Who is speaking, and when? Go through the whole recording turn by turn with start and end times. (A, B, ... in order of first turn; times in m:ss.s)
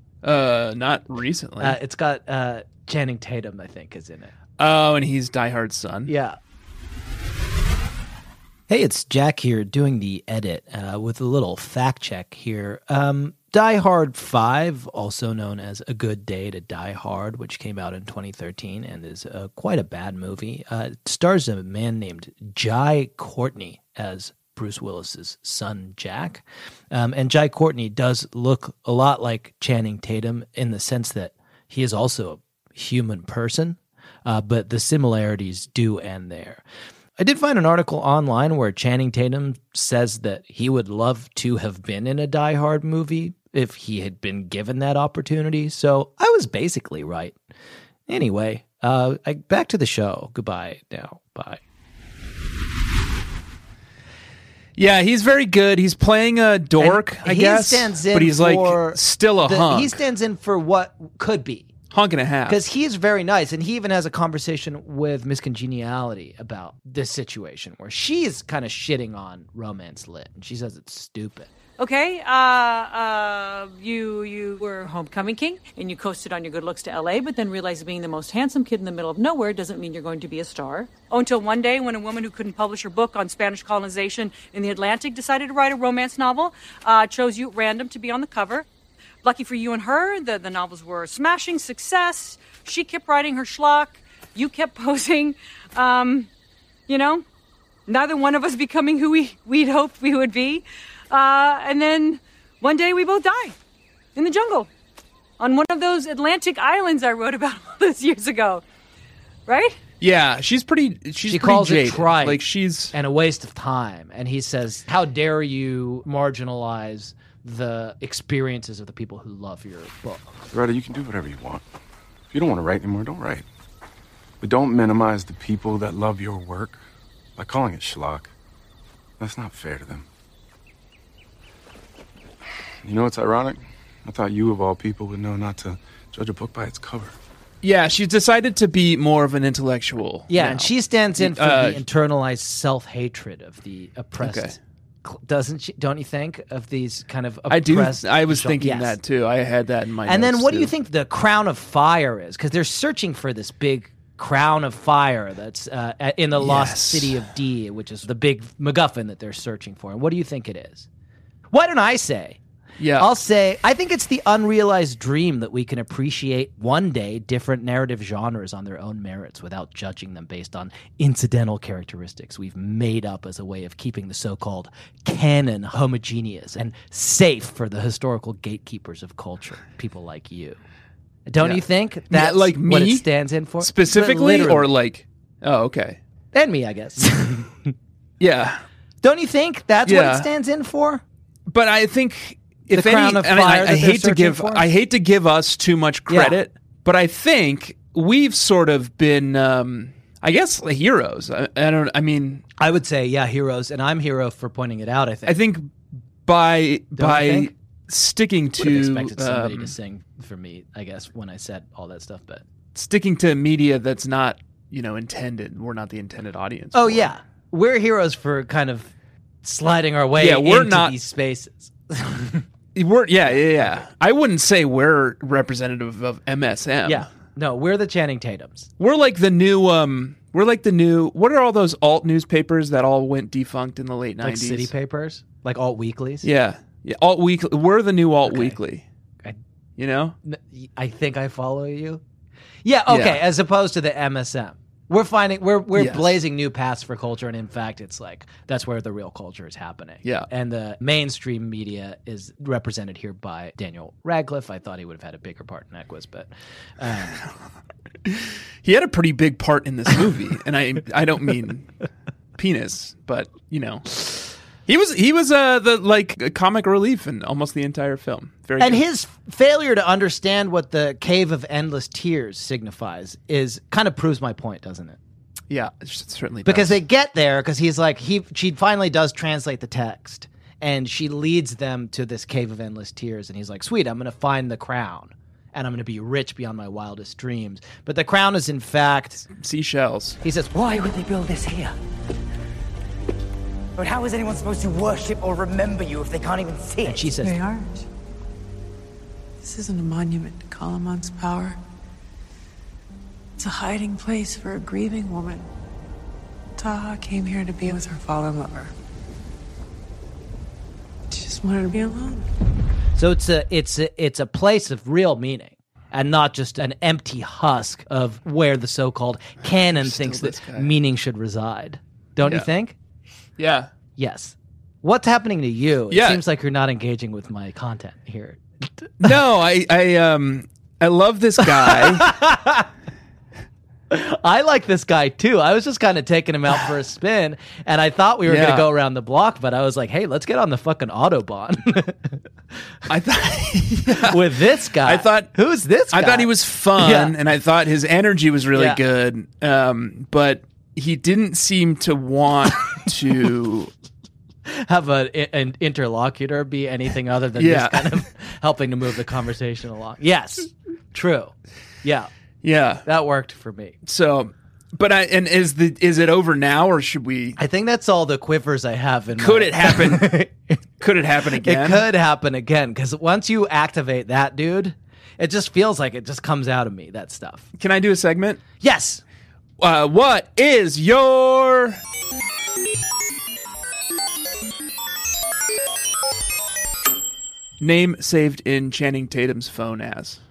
0:00.2-0:01.8 A
0:01.6-0:04.3 B
0:04.6-0:06.1 A
0:06.1-0:06.4 B
0:08.7-0:36.6 B
0:37.2-0:47.4 B
0:48.1-0:51.6 B
0:54.8-1:00.0 A
0:56.8-1:01.7 B
1:01.9-1:02.6 A
1:02.5-1:11.5 B
1:11.8-1:28.7 C
1:29.2-1:36.3 C
1:36.9-1:37.2 C
1:37.9-1:43.6 C
1:44.2-1:44.7 C
1:45.4-1:48.6 C
1:49.5-1:49.8 C
1:50.0-1:52.9 A
1:51.3-1:52.4 B
1:52.9-2:00.3 B
2:00.5-2:01.6 D
2:02.3-2:03.5 D
2:04.4-2:06.8 D
2:07.4-2:08.3 D
2:09.2-2:10.1 D
2:12.8-2:17.2 D
2:17.6-2:21.8 A
2:20.3-2:29.0 B
2:24.2-2:24.6 A
2:27.5-2:30.7 A
2:30.1-2:40.9 B
2:36.4-2:37.2 A
2:41.5-2:42.4 B
2:42.8-2:43.1 A
2:43.0-3:00.6 B
3:01.3-3:04.7 B
3:01.4-3:03.0 A
3:03.6-3:06.0 A
3:06.3-3:07.7 B
3:08.2-3:08.6 A
3:09.0-3:11.0 B
3:09.9-3:10.3 A
3:11.5-3:22.4 A
3:12.7-3:14.7 B
3:16.1-3:16.4 B
3:22.6-3:25.4 B
3:25.3-3:25.7 A
3:26.3-3:29.7 A
3:27.0-3:27.5 B
3:28.6-3:32.4 B
3:32.7-3:37.1 A
3:36.7-3:38.9 B
3:39.4-3:42.4 B
3:40.2-3:41.0 A
3:42.8-3:47.1 A
3:43.3-3:43.8 B
3:46.9-3:48.7 B
3:48.8-3:54.7 A
3:54.2-3:56.3 B
3:56.2-3:58.8 A
3:58.3-3:58.6 B
3:59.8-4:00.2 A
4:00.2-4:02.0 B
4:02.6-4:17.2 B
4:02.9-4:03.2 A
4:05.8-4:06.2 A
4:18.1-4:21.7 A
4:22.4-4:28.8 A
4:28.6-4:35.0 B
4:35.5-4:36.8 A
4:36.5-4:49.3 B
4:49.4-4:50.2 A
4:50.2-4:50.5 B
4:50.5-4:51.7 E
4:53.8-4:57.1 E
4:56.8-4:57.4 B
4:57.2-4:57.8 F
4:59.4-5:01.6 F
5:03.4-5:05.5 F
5:06.6-5:08.7 F
5:11.1-5:12.3 F
5:13.0-5:22.8 B
5:19.7-5:20.7 A
5:23.4-5:23.7 A
5:24.0-5:28.9 B
5:25.9-5:26.2 A
5:29.0-5:32.2 A
5:31.4-5:32.7 B
5:33.9-5:42.2 B
5:38.3-5:38.7 A
5:42.9-5:45.3 A
5:43.9-5:47.2 B
5:45.9-5:53.7 A
5:48.5-5:48.8 B
5:54.5-6:02.1 B
5:57.4-5:57.9 A
6:02.4-6:02.8 A
6:02.9-6:03.8 B
6:03.9-6:07.4 A
6:07.4-6:10.6 B
6:09.2-6:10.2 A
6:10.8-6:11.8 A
6:11.4-6:17.5 B
6:17.6-6:18.4 A
6:18.6-6:19.0 B
6:19.6-6:21.8 A
6:27.6-6:30.2 A